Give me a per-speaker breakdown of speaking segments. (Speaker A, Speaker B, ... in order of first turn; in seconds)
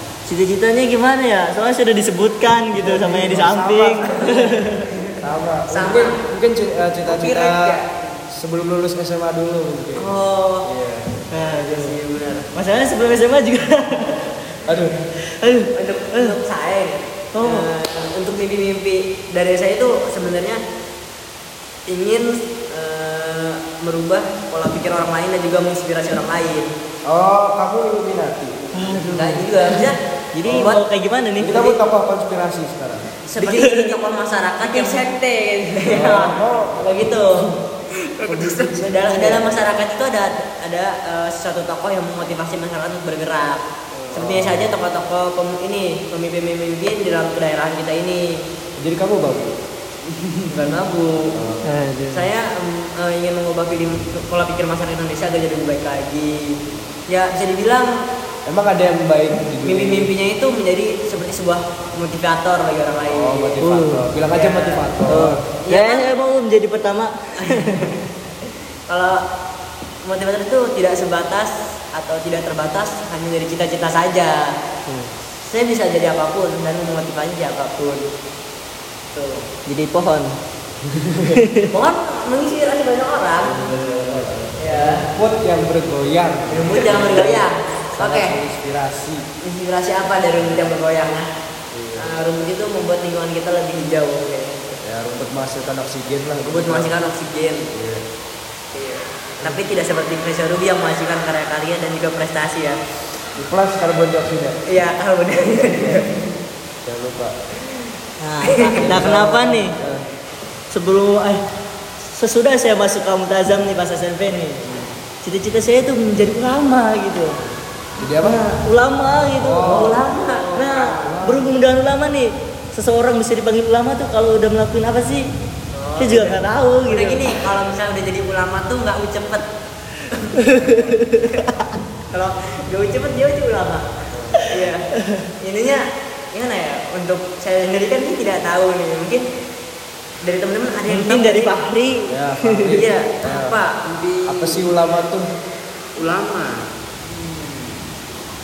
Speaker A: 0.3-4.8, 11.3-11.9, 12.6-14.2, 15.3-16.4, 17.3-17.7, 28.8-31.7, 33.4-34.0, 51.6-52.3, 63.6-64.1, 65.1-67.8, 79.7-80.4, 81.3-81.6, 108.2-109.8, 110.7-111.4, 112.2-114.6, 115.2-117.4, 118.2-125.3, 126.0-127.2, 130.7-131.2, 140.9-142.8
Speaker B: 2.8-4.6, 5.2-7.8, 8.3-11.2, 14.6-14.9, 27.1-28.7, 30.4-30.7, 31.4-33.1, 35.9-37.0, 38.3-39.5, 44.1-44.7, 48.8-49.5, 51.4-51.8, 58.5-60.1, 63.1-65.4, 80.8-81.4, 83.4-89.2, 91.7-92.1, 94.8-96.9, 97.7-98.0, 103.4-104.5, 106.8-107.3, 108.8-110.1, 114.6-115.0, 118.0-118.4, 119.4-120.0, 121.0-121.5, 134.1-134.4, 142.1-143.6, 144.3-145.2
Speaker C: 5.7-6.2, 10.0-10.7, 11.4-12.5, 15.7-20.6, 21.9-26.7, 29.1-30.8, 33.2-35.0, 35.8-37.5, 38.8-48.3, 50.5-51.4, 52.1-57.9, 59.6-63.6, 64.3-66.1, 67.4-68.0, 68.9-69.2, 70.0-74.5, 75.4-78.0, 79.1-79.5, 81.7-83.7, 84.6-85.0, 86.5-88.3, 89.4-91.3, 92.0-94.8, 96.5-97.7, 98.7-102.8, 104.7-106.0, 108.5-108.8, 119.7-121.0, 125.7-129.4, 130.1-130.8, 132.1-133.8, 134.4-134.9, 135.4-139.2, 140.2-141.6, 142.7-143.7
Speaker D: 7.1-8.2, 34.6-36.2, 38.1-38.8, 43.9-44.2, 143.8-144.6, 146.0-148.0